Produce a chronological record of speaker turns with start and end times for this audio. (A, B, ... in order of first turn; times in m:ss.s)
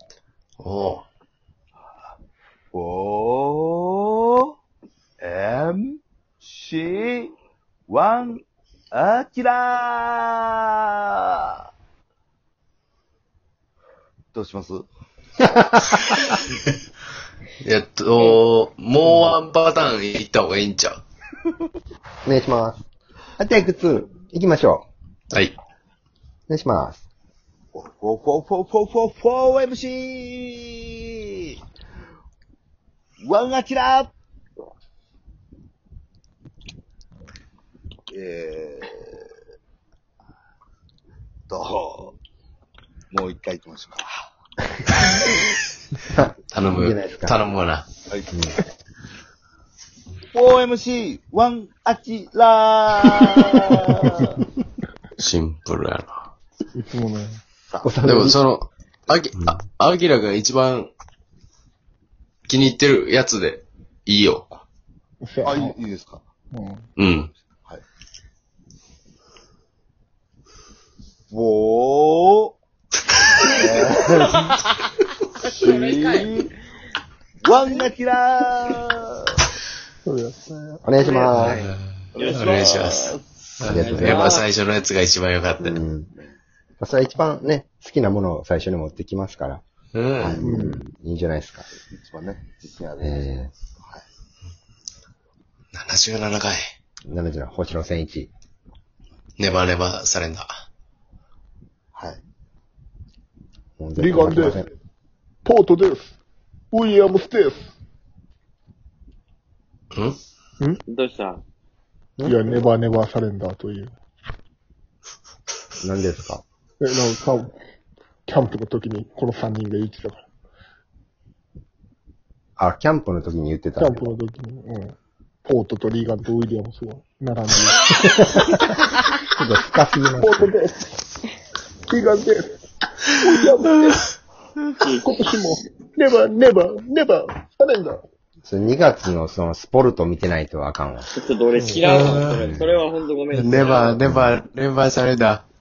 0:00.6-0:01.0 A
0:02.7-0:04.5 B
0:05.2-0:07.3 B
0:07.9-0:11.6 B
0:14.3-0:14.9 B
0:15.4-0:16.2 C
0:17.6-0:21.0 A
0:22.2-0:22.8 C
0:23.4-0:24.9 C
0:26.5-0:27.0 C
0:27.7-0:31.6 B
0:33.2-0:34.1 B
0:38.1-0:39.3 B
0:41.5-0:42.2 B
0:43.1-0:44.3 B
0:46.0-0:47.4 C
0:46.5-0:47.9 A
0:48.3-0:48.6 C
0:50.3-0:54.3 B
0:54.2-0:54.4 D
0:55.2-0:56.1 A
0:56.7-0:57.4 D
0:57.7-0:58.0 B
0:57.8-0:58.4 C
0:58.0-1:00.9 A
1:02.5-1:04.5 A
1:05.2-1:05.8 D
1:05.4-1:06.2 B
1:06.5-1:06.8 D
1:07.0-1:07.3 A
1:11.3-1:12.6 B
1:13.5-1:14.5 B
1:15.4-1:16.5 B
1:15.6-1:16.3 E
1:17.4-1:19.4 B
1:20.0-1:20.9 D
1:20.8-1:21.6 C
1:21.0-1:21.6 E
1:21.3-1:25.8 A
1:22.2-1:23.1 E
1:23.6-1:24.4 C
1:23.7-1:24.5 E
1:25.6-1:26.1 C
1:26.8-1:29.6 C
1:29.9-1:30.4 A
1:30.2-1:30.4 B
1:30.2-1:31.7 C
1:30.4-1:30.8 D
1:31.8-1:34.0 B
1:33.0-1:33.5 C
1:35.7-1:36.6 A
1:37.1-1:38.3 C
1:39.4-1:40.5 A
1:41.9-1:42.2 B
1:43.8-1:44.7 C
1:44.0-1:44.6 D
1:45.4-1:46.2 D
1:46.7-1:47.7 D
1:50.9-1:51.4 E
1:52.2-1:52.6 C
1:52.2-1:54.0 D
1:55.8-1:56.4 C
1:56.8-1:57.5 D
1:58.3-2:00.3 D
2:02.6-2:04.1 C
2:03.8-2:08.7 D
2:08.3-2:08.6 C
2:09.2-2:10.5 C
2:10.2-2:10.9 D
2:11.9-2:12.5 D
2:13.1-2:14.0 D
2:14.8-2:15.3 E
2:15.0-2:18.1 D
2:18.4-2:21.1 C
2:21.1-2:24.0 E
2:21.6-2:21.9 D
2:21.8-2:22.6 A
2:22.4-2:22.7 C
2:23.3-2:25.4 A